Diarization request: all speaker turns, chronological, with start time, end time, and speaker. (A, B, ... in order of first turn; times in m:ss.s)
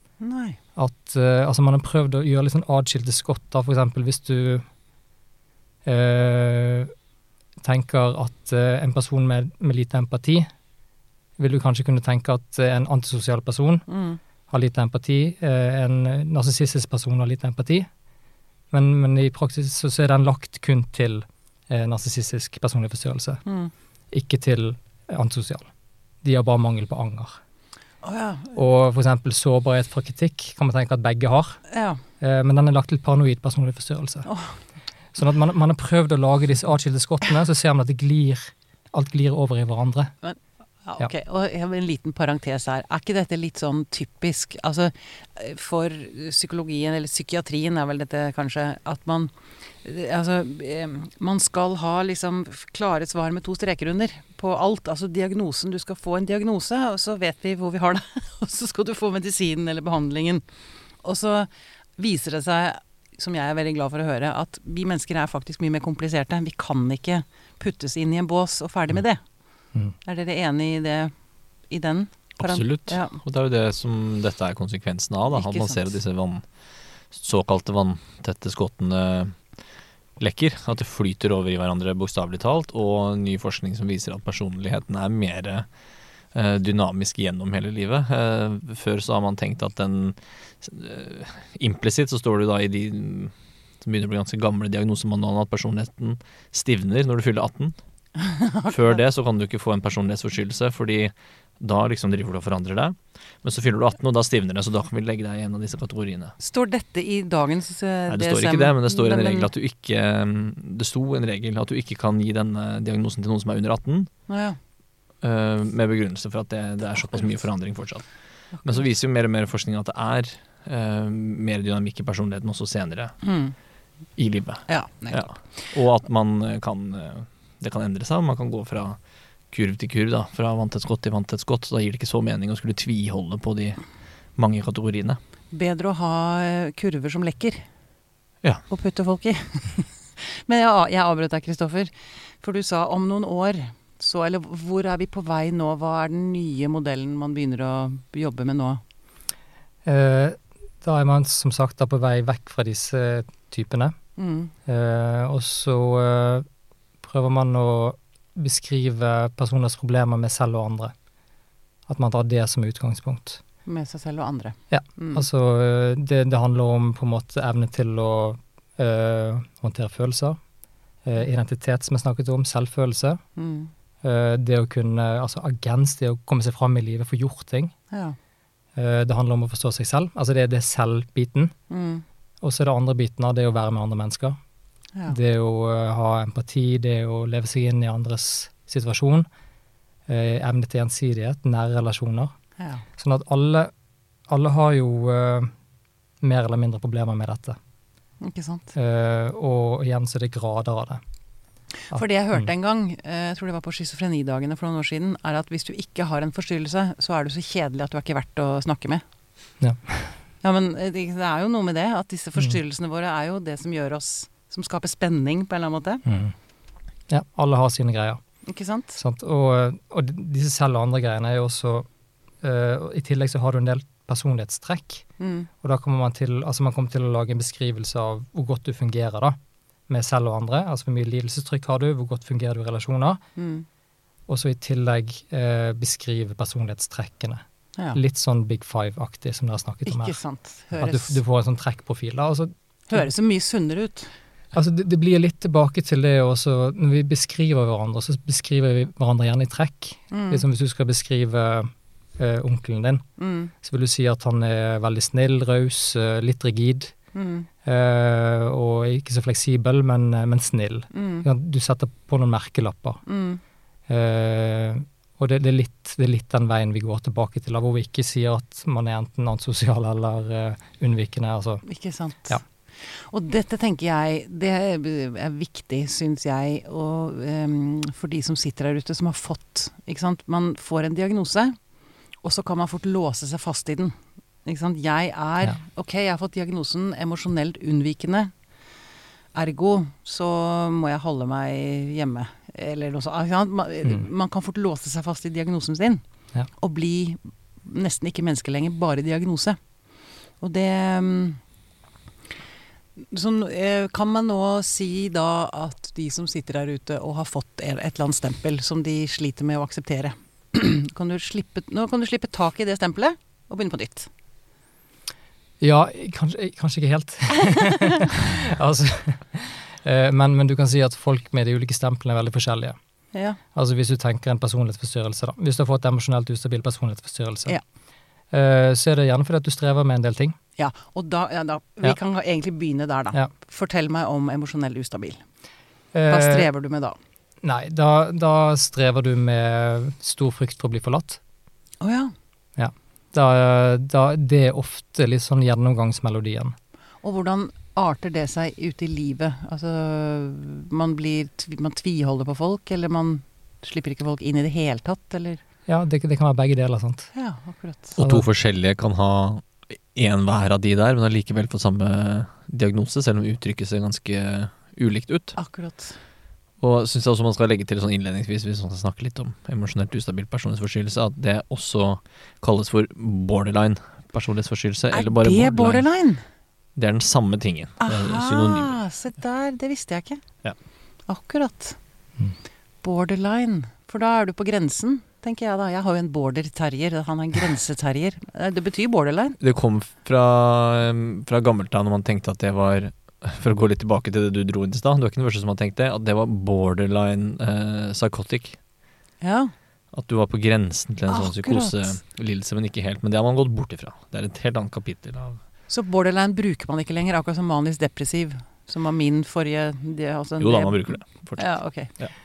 0:00.2-0:00.6 A
0:00.8-0:04.6 B
0:05.8-0:06.9 B
0:07.6-0:10.5 B
0:11.4-0:13.8 B
0:13.9-0:14.2 A
0:14.5-0:17.9 B
0:18.7-0:23.4 B
0:23.4-0:23.7 A
0:24.1-0:25.7 B
0:26.2-0:27.4 B
0:28.0-0:28.6 A
0:28.5-0:31.6 B
0:31.7-0:32.0 A
0:32.2-0:34.3 B
0:34.2-0:34.5 A
0:35.1-0:40.1 B
0:40.2-0:49.3 A
0:49.8-1:00.4 A
1:01.0-1:09.2 A
1:10.0-1:11.1 A
1:11.7-1:13.2 A
1:12.4-1:16.4 C
1:15.3-1:15.9 A
1:17.1-1:19.4 C
1:20.2-1:25.6 C
1:26.3-1:37.8 C
1:38.2-1:39.0 A
1:38.7-1:46.4 C
1:46.4-1:49.5 A
1:48.1-1:54.1 C
1:54.3-1:54.6 A
1:55.2-1:58.0 C
1:58.6-1:58.8 A
1:58.6-2:03.2 C
2:03.2-2:03.5 A
2:04.2-2:09.0 C
2:04.7-2:05.4 A
2:09.5-2:13.8 C
2:14.4-2:15.2 C
2:15.5-2:17.6 A
2:18.7-2:28.8 A
2:29.8-2:33.9 B
2:34.2-2:34.5 A
2:34.6-2:36.4 B
2:37.0-2:40.9 B
2:41.9-2:43.4 B
2:43.6-2:45.2 A
2:44.7-2:50.4 B
2:51.0-2:53.2 B
2:53.4-2:53.7 A
2:54.0-2:57.7 B
2:57.9-2:58.2 A
2:58.8-3:01.5 B
3:01.7-3:02.0 A
3:02.4-3:04.4 B
3:05.1-3:09.3 B
3:10.1-3:12.3 B
3:13.0-3:13.7 B
3:14.3-3:15.5 B
3:16.2-3:17.6 B
3:18.2-3:18.7 A
3:18.7-3:21.0 B
3:21.9-3:29.0 A
3:21.9-3:22.5 B
3:29.6-3:30.1 B
3:30.4-3:36.0 A
3:36.0-3:36.3 B
3:37.1-3:38.2 B
3:38.4-3:39.0 A
3:39.0-3:41.9 B
3:42.4-3:45.1 B
3:45.2-3:45.5 A
3:45.6-3:49.4 B
3:49.9-3:53.2 B
3:53.4-3:53.6 A
3:54.3-3:57.4 B
3:57.9-4:00.2 B
3:59.9-4:01.2 A
4:00.8-4:03.1 B
4:02.9-4:04.1 A
4:04.5-4:13.0 B
4:10.1-4:10.4 A
4:13.2-4:13.5 A
4:13.6-4:16.9 B
4:17.1-4:17.5 A
4:17.6-4:23.0 B
4:20.9-4:21.3 A
4:23.1-4:23.4 A
4:23.9-4:31.6 B
4:31.6-4:41.6 A
4:42.2-4:48.3 A
4:49.4-4:56.0 A
4:56.6-4:59.6 A
5:00.4-5:01.4 A
5:03.0-5:14.1 A
5:15.6-5:22.8 B
5:23.1-5:23.4 A
5:23.5-5:27.6 B
5:28.3-5:30.4 B
5:30.6-5:35.2 A
5:35.9-5:36.5 B
5:36.1-5:37.0 A
5:37.4-5:41.2 B
5:41.8-5:42.1 A
5:42.6-5:46.5 B
5:47.0-5:55.4 A
5:55.7-5:57.1 B
5:57.1-5:58.0 A
5:58.0-5:58.3 B
5:58.0-6:05.4 C
6:05.4-6:06.0 A
6:06.6-6:15.8 C
6:14.9-6:16.2 A
6:16.8-6:18.8 C
6:17.8-6:20.2 A
6:21.1-6:21.8 A
6:22.8-6:29.4 A
6:29.4-6:38.6 C
6:39.2-6:39.5 A
6:39.9-6:45.4 C
6:41.1-6:42.0 A
6:45.7-6:51.9 A
6:50.4-6:52.1 C